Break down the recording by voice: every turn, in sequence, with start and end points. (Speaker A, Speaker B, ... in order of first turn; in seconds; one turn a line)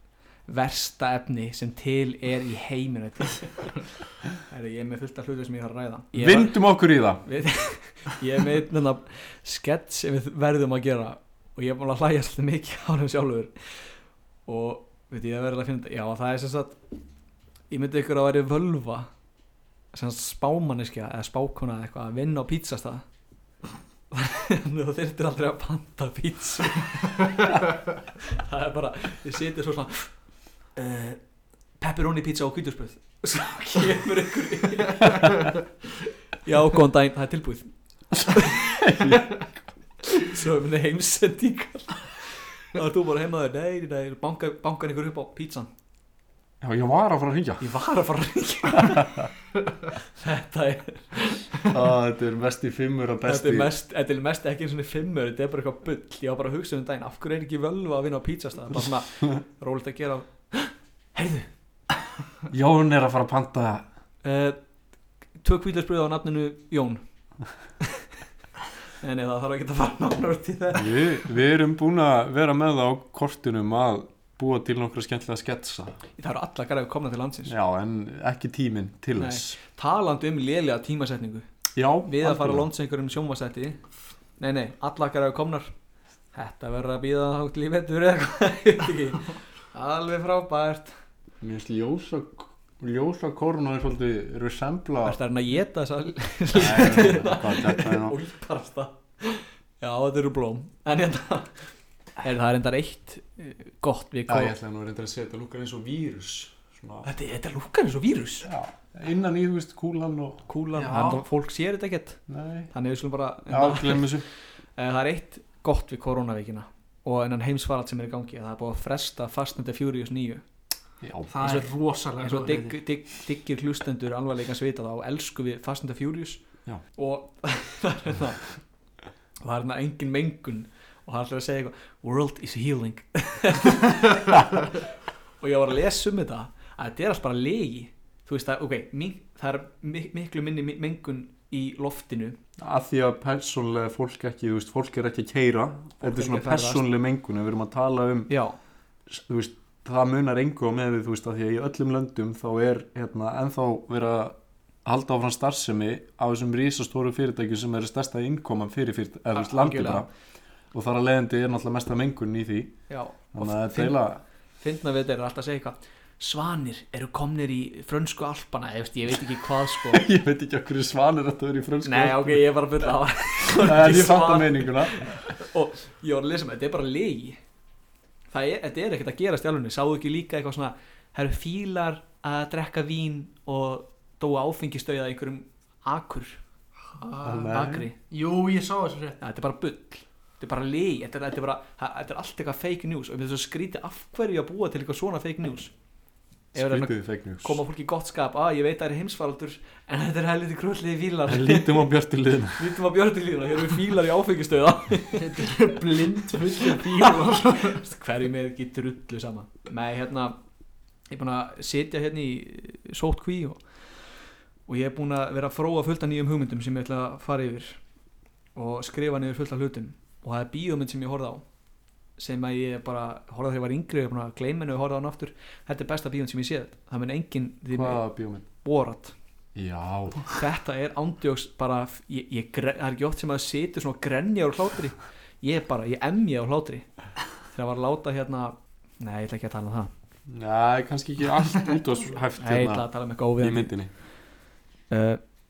Speaker A: 0.5-3.8
Speaker A: 4.5-6.7
Speaker B: 6.1-7.2
Speaker A: 7.2-13.5
Speaker A: 14.5-16.8
Speaker A: 17.7-19.1
Speaker A: 19.9-23.0
Speaker A: 24.1-27.6
Speaker A: 28.2-30.1
Speaker A: 30.8-31.2
Speaker A: 31.8-35.5
Speaker A: 36.4-37.7
Speaker A: 38.2-39.2
Speaker B: 38.8-39.4
Speaker A: 40.0-45.7
Speaker B: 46.6-47.7
Speaker A: 47.6-49.3
Speaker B: 48.8-49.2
Speaker A: 50.0-51.7
Speaker B: 51.7-53.7
Speaker A: 53.2-61.5
Speaker B: 62.5-63.9
Speaker A: 64.2-64.6
Speaker A: 65.4-67.0
Speaker A: 69.0-71.2
Speaker B: 70.8-76.0
Speaker A: 76.2-77.5
Speaker B: 77.5-79.6
Speaker A: 79.2-81.5
Speaker B: 81.8-82.7
Speaker A: 82.0-83.8
Speaker A: 84.4-85.7
Speaker A: 86.3-90.9
Speaker B: 91.4-95.2
Speaker A: 95.0-101.5
Speaker B: 96.5-98.2
Speaker A: 102.2-104.5
Speaker B: 104.3-107.1
Speaker A: 107.0-108.5
Speaker B: 108.4-110.5
Speaker A: 110.5-112.2
Speaker C: 110.8-111.2
Speaker B: 112.3-112.7
Speaker A: 112.7-114.2
Speaker B: 113.5-114.3
Speaker A: 114.8-120.4
Speaker B: 121.0-121.5
Speaker C: 121.3-122.8
Speaker A: 122.2-128.5
Speaker A: 129.4-134.8
Speaker A: 135.4-142.4
Speaker B: 142.6-148.3
Speaker A: 146.0-146.8
Speaker A: 148.3-148.6
Speaker B: 149.1-160.1
Speaker A: 159.4-160.1
Speaker B: 160.7-162.8
Speaker A: 162.9-164.0
Speaker B: 163.3-164.2
Speaker A: 164.6-170.1
Speaker B: 169.9-172.5
Speaker A: 171.8-177.4
Speaker B: 173.4-175.3
Speaker A: 178.3-186.4
Speaker C: 187.0-189.2
Speaker B: 187.2-187.9
Speaker A: 187.4-188.0
Speaker A: 189.2-195.7
Speaker B: 196.5-197.6
Speaker A: 196.5-201.9
Speaker B: 201.3-202.6
Speaker A: 202.5-205.5
Speaker C: 205.2-207.8
Speaker A: 207.6-210.4
Speaker A: 211.1-213.6
Speaker A: 214.7-217.8
Speaker A: 218.6-221.4
Speaker A: 222.2-229.2
Speaker B: 227.7-228.4
Speaker B: 229.6-230.3
Speaker A: 230.3-236.9
Speaker A: 237.5-239.9
Speaker B: 240.3-242.9
Speaker A: 242.4-243.7
Speaker B: 243.4-243.9
Speaker A: 244.9-245.2